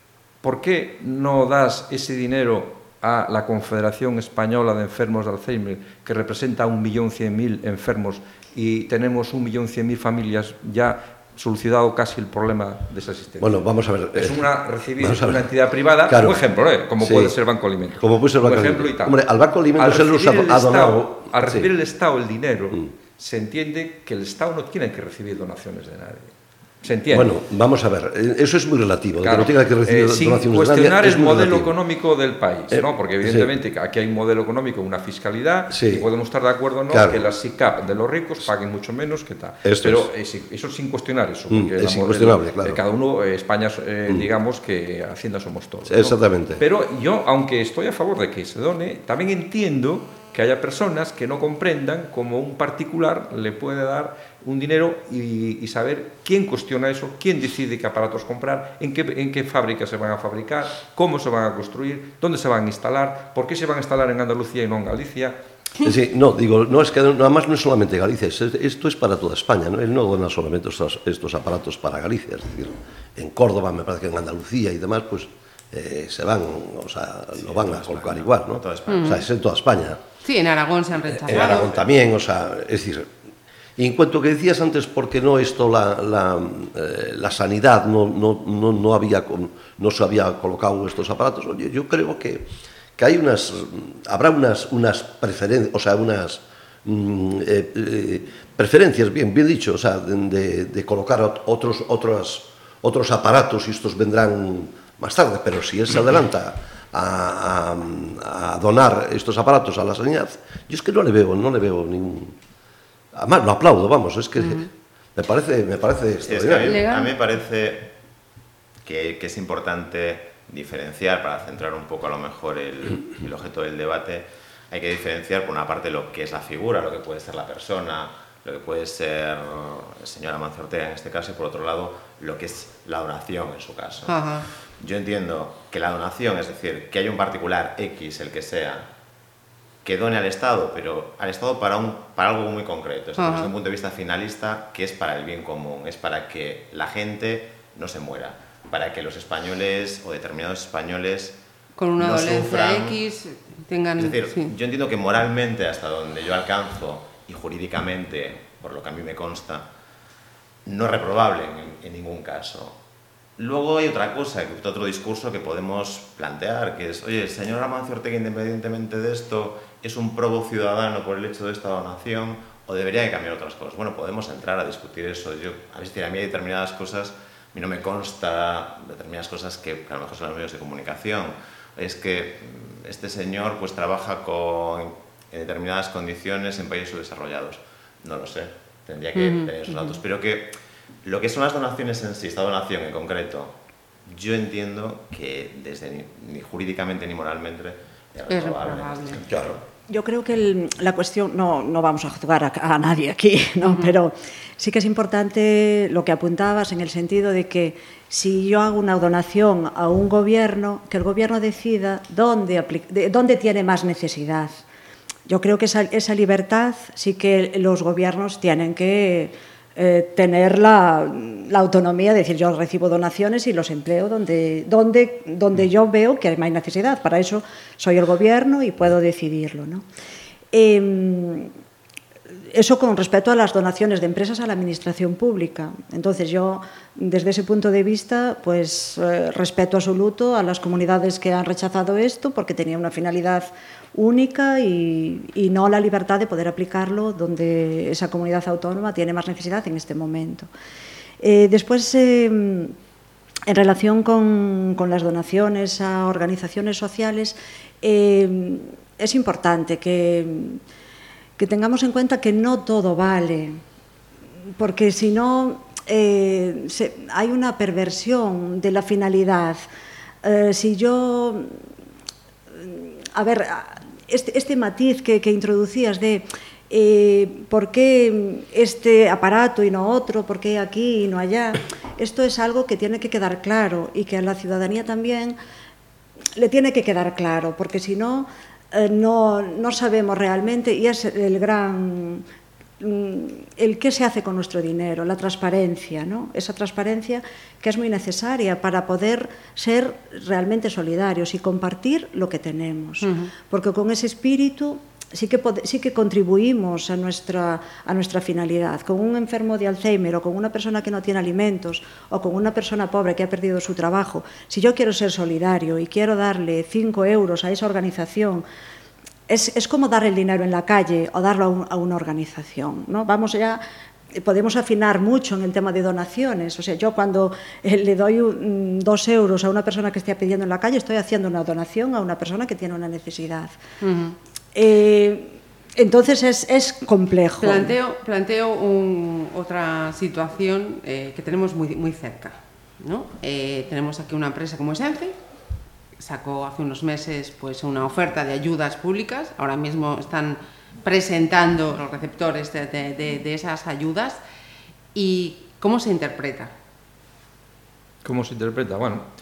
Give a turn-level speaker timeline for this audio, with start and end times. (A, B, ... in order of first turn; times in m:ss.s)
0:00.4-0:19.2 A
0:13.4-0:14.4 B
0:15.0-0:15.4 B
0:16.1-0:16.4 B
0:17.0-0:17.3 B
0:18.0-0:21.7 B
0:19.7-0:27.4 A
0:27.1-0:31.7 B
0:29.2-1:05.4 A
0:32.7-0:33.5 B
0:35.7-0:36.1 B
0:36.9-0:37.2 B
0:39.6-0:40.1 B
0:41.5-0:42.8 B
0:45.9-0:46.6 B
1:05.8-1:20.0 B
1:17.4-1:19.2 C
1:18.9-1:19.2 D
1:20.2-1:21.7 D
1:21.2-1:23.1 B
1:23.8-1:32.4 B
1:33.0-1:52.4 B
1:53.1-1:56.8 B
1:54.4-1:54.7 D
1:56.2-1:57.9 C
1:56.6-1:57.2 D
1:58.8-2:18.9 C
2:14.1-2:14.5 D
2:19.8-2:31.4 C
2:23.2-2:23.5 D
2:31.8-2:34.5 D
2:32.0-2:33.0 C
2:34.0-2:39.7 C
2:40.6-2:42.8 C
2:43.4-3:10.5 C
3:09.1-3:10.0 D
3:11.0-3:19.6 C
3:18.3-3:19.2 D
3:19.3-3:19.6 B
3:19.9-3:34.6 E
3:23.7-3:23.9 D
3:35.2-3:49.8 E
3:50.5-3:51.5 E
3:52.5-4:10.5 E
4:11.2-4:12.7 E
4:13.5-4:20.6 E
4:21.4-4:23.6 E
4:24.6-4:29.6 E
4:30.2-4:31.5 E
4:32.6-4:45.4 E
4:46.4-4:52.2 E
4:52.8-5:18.4 E
5:03.0-5:03.3 D
5:19.3-5:23.6 E
5:24.1-5:33.6 E
5:33.8-5:34.2 D
5:34.5-5:37.7 E
5:37.4-5:45.2 D
5:46.0-5:54.2 D
5:54.9-5:56.5 D
5:58.0-5:59.1 A